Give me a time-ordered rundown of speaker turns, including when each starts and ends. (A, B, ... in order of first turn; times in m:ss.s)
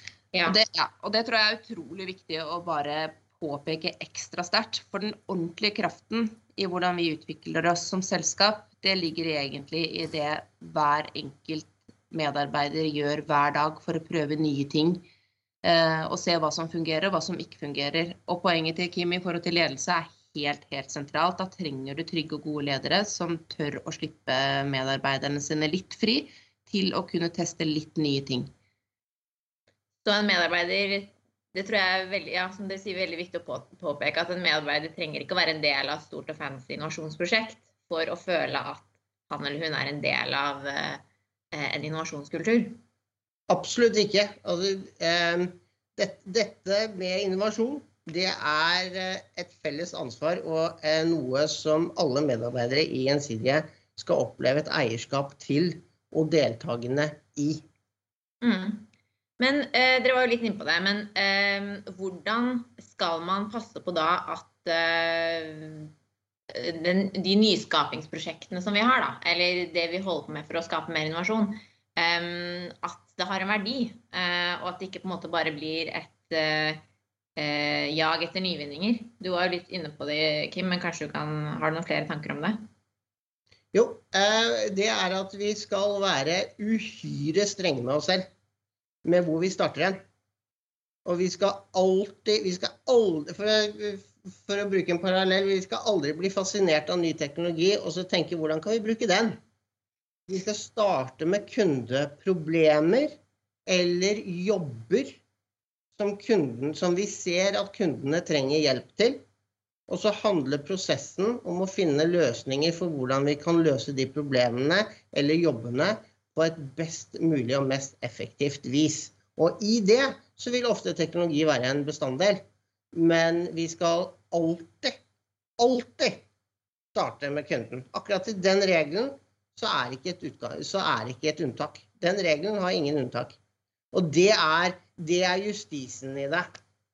0:00.3-0:00.6 A
0:00.5-0:15.1 B
0:15.6-0:28.5 B
0:30.0-0:42.8 A
0:43.5-0:57.6 C
0:58.4-0:58.9 A
0:59.4-1:05.9 A
1:06.5-1:16.8 A
1:17.4-1:22.6 A
1:23.7-1:28.3 C
1:29.0-1:30.0 C
1:31.0-1:39.4 C
1:40.3-1:45.2 C
1:45.9-1:49.2 C
1:49.9-2:05.0 C
2:05.6-2:06.2 C
2:06.9-2:13.4 C
2:13.9-2:16.4 C